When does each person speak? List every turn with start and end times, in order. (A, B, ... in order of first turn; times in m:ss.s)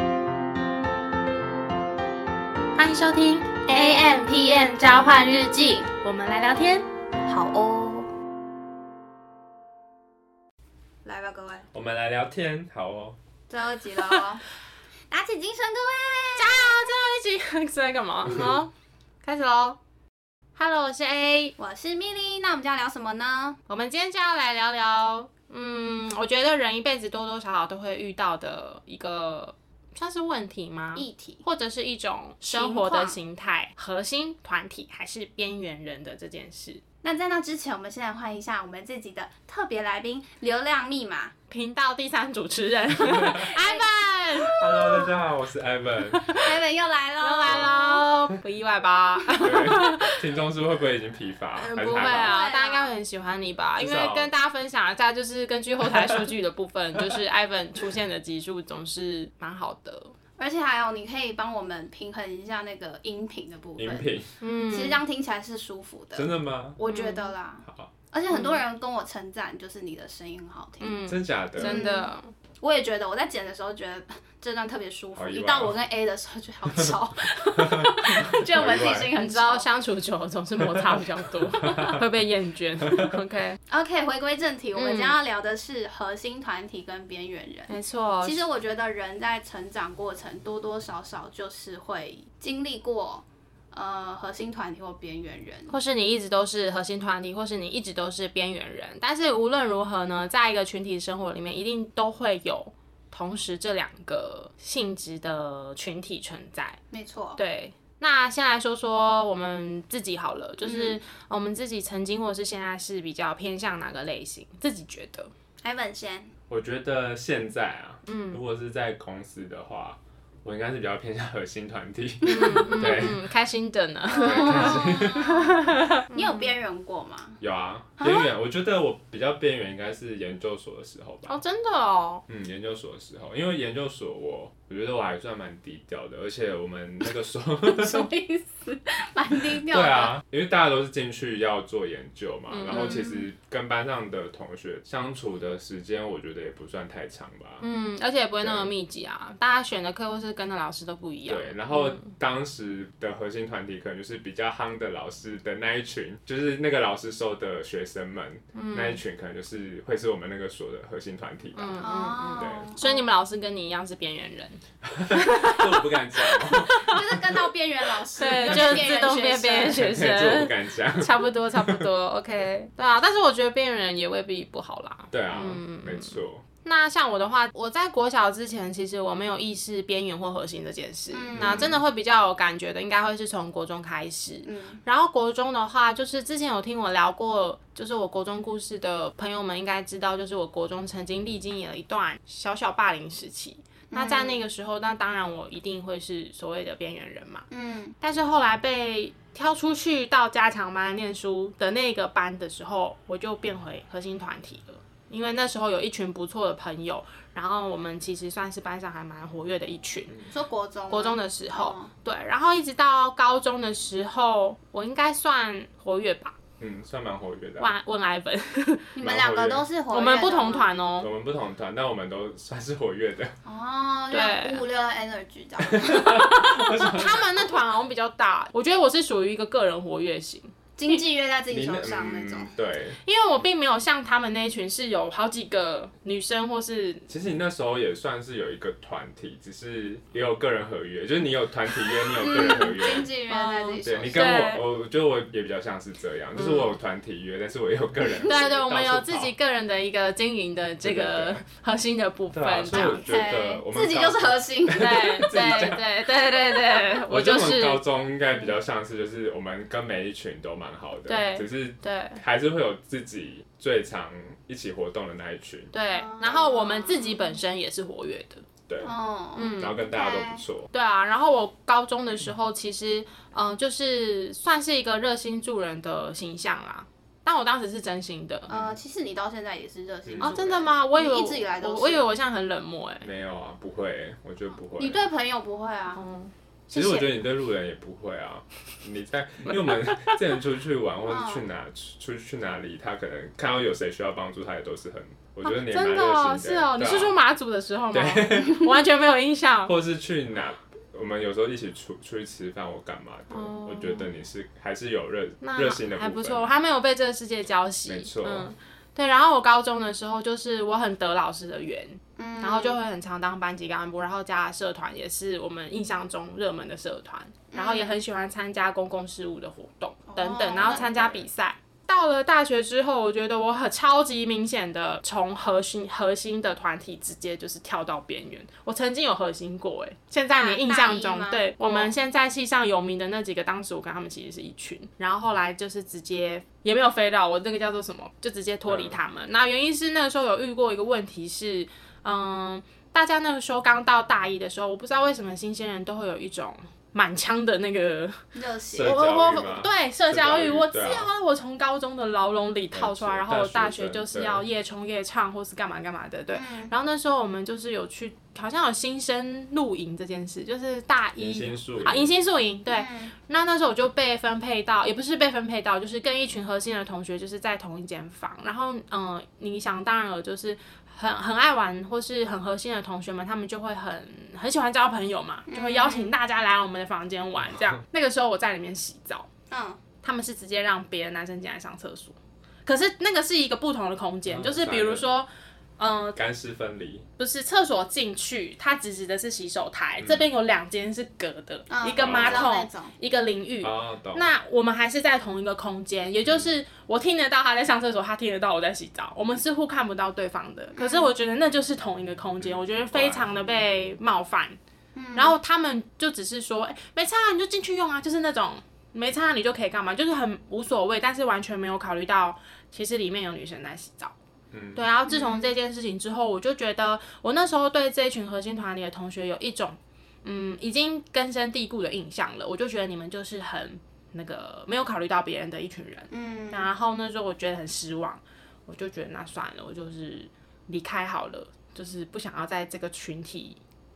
0:02.8-0:03.9 A
0:03.7-0:05.8 B
0:04.8-0:06.9 A
0:07.3-0:08.1 B
0:11.0-0:11.7 B
0:11.7-0:13.2 C
0:13.5-0:14.4 B
0:15.1-0:16.7 B
0:16.4-0:18.7 A
0:19.2-0:19.8 A
0:20.6-0:21.6 A
0:21.6-0:23.6 B
0:23.7-0:36.8 A
0:31.0-0:31.4 B
0:32.5-0:33.2 B
0:37.0-0:41.3 B
0:41.5-0:44.6 A
0:43.0-0:43.5 C
0:43.4-0:45.1 B
0:44.6-0:46.2 C
0:46.1-0:46.5 A
0:46.3-0:48.0 B
0:47.2-0:50.2 A
0:49.4-0:52.4 C
0:51.6-1:00.1 A
0:51.9-0:53.0 B
0:53.8-0:54.3 C
1:00.4-1:04.1 B
1:03.8-1:04.3 C
1:04.4-1:05.0 A
1:04.7-1:11.1 B
1:06.2-1:06.8 C
1:06.8-1:07.3 A
1:08.3-1:08.6 A
1:10.8-1:12.3 A
1:11.1-1:11.8 C
1:11.6-1:19.6 B
1:15.2-1:15.8 C
1:16.8-1:19.1 C
1:19.2-1:23.6 A
1:20.7-1:22.0 C
1:23.7-1:35.7 B
1:24.8-1:25.2 A
1:27.7-1:28.4 A
1:35.7-1:46.8 A
1:46.9-1:47.4 B
1:47.4-1:55.3 A
1:50.6-1:51.0 B
1:55.6-1:56.3 B
1:56.5-2:03.3 C
1:58.1-1:58.4 A
2:02.2-2:06.5 A
2:04.1-2:05.6 B
2:04.1-2:05.4 C
2:06.1-2:07.4 B
2:07.4-2:11.4 C
2:08.0-2:08.3 B
2:11.3-2:12.2 A
2:12.3-2:18.1 C
2:17.7-2:20.2 B
2:19.5-2:27.6 C
2:22.5-2:23.1 A
2:22.7-2:23.3 B
2:27.6-2:32.2 A
2:28.4-2:28.7 C
2:31.3-2:42.8 C
2:38.5-2:39.0 A
2:41.6-2:47.0 A
2:41.8-2:42.9 B
2:44.9-2:47.2 C
2:46.8-2:49.8 B
2:48.2-3:17.5 A
2:48.4-2:48.8 C
2:49.7-2:51.8 C
2:55.1-2:56.4 C
3:01.1-3:01.8 B
3:01.3-3:01.8 C
3:04.4-3:04.8 B
3:13.9-3:14.4 B
3:17.5-3:18.0 B
3:18.0-3:30.1 A
3:30.3-3:31.9 B
3:30.9-3:36.4 A
3:36.6-3:37.8 C
3:37.6-3:38.9 A
3:39.0-3:40.7 B
3:39.0-3:39.7 C
3:39.9-3:41.1 A
3:41.0-3:43.4 C
3:43.4-3:46.6 B
3:44.1-3:44.6 A
3:45.7-3:47.5 C
3:46.2-3:50.5 A
3:50.8-3:52.5 B
3:51.5-3:53.0 C
3:53.0-3:57.1 A
3:57.1-4:03.1 C
4:02.2-4:04.3 B
4:02.2-4:02.7 A
4:03.3-4:04.6 A
4:03.8-4:09.3 C
4:06.4-4:06.7 A
4:08.3-4:13.1 A
4:10.8-4:11.4 C
4:12.3-4:16.3 C
4:12.7-4:15.4 B
4:14.8-4:17.8 A
4:17.1-4:25.7 C
4:21.1-4:22.2 A
4:25.7-4:28.4 A
4:25.9-4:27.2 B
4:28.7-4:28.9 C
4:28.8-4:30.4 B
4:29.4-4:29.8 A
4:29.5-4:30.7 C
4:30.7-4:38.5 A
4:38.5-4:38.8 C
4:38.5-4:42.1 B
4:40.1-4:40.4 C
4:40.2-4:43.1 A
4:43.0-4:45.0 C
4:44.8-4:46.0 B
4:46.0-4:47.1 A
4:46.7-4:57.2 C
4:51.1-4:51.5 B
4:55.4-4:59.7 A
4:57.9-4:58.7 C
4:59.7-5:06.6 C
5:03.3-5:04.1 A
5:05.4-5:48.2 A
5:07.8-5:08.5 C
5:12.2-5:12.8 B
5:17.5-5:18.0 B
5:20.1-5:21.1 B
5:30.3-5:31.9 B
5:38.7-5:39.0 C
5:48.4-5:49.0 B
5:48.7-5:51.1 C
5:48.8-6:19.3 A
5:52.7-5:54.4 C
5:56.3-5:56.7 B
6:01.2-6:02.1 C
6:02.7-6:03.1 B
6:15.5-6:16.2 B
6:19.5-6:19.8 B
6:20.0-6:26.2 A
6:24.3-6:25.1 C
6:26.2-6:27.1 C
6:27.2-6:44.6 A
6:30.0-6:30.3 C
6:31.7-6:32.9 B
6:32.0-6:32.5 C
6:33.6-6:34.3 C
6:40.8-6:41.1 B
6:42.4-6:43.4 C
6:45.0-6:45.4 B
6:45.2-6:54.1 A
6:54.5-6:54.8 C
6:54.8-7:13.6 A
6:55.1-6:55.5 B
7:06.1-7:06.7 B